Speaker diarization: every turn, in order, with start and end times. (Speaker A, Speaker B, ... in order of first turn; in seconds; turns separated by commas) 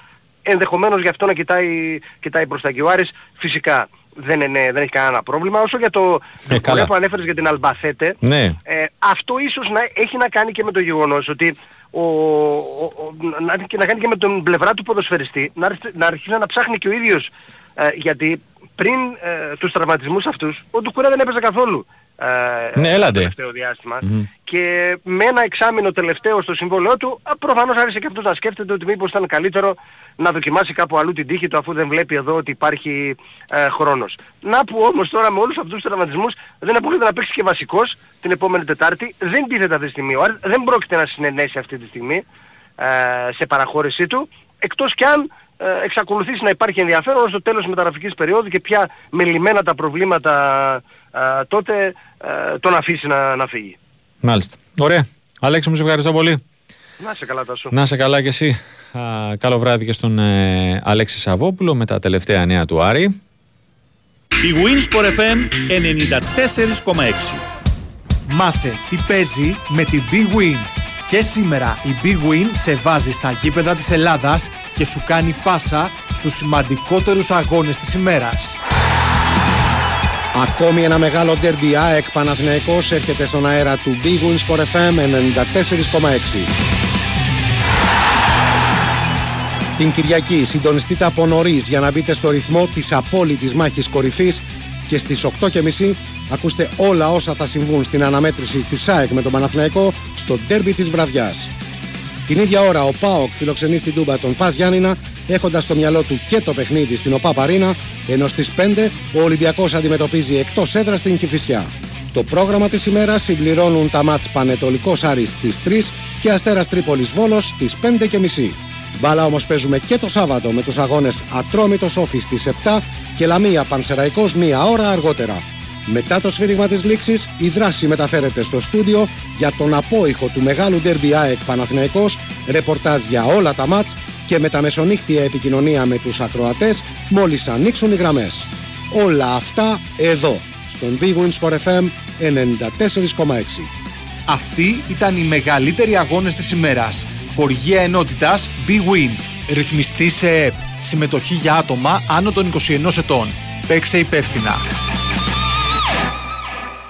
Speaker A: 0.5-42.2, Speaker B: 6.5-6.9, Speaker B: 8.2-8.6, Speaker B: 22.8-23.3, Speaker B: 24.0-24.3, Speaker A: 42.8-53.8, Speaker B: 54.2-56.4, Speaker A: 57.0-57.7, Speaker B: 57.7-63.1, Speaker C: 64.4-67.4, Speaker D: 68.3-78.6, Speaker E: 80.3-86.5, Speaker E: 89.8-101.5, Speaker E: 102.3-143.7, Speaker D: 144.3-154.6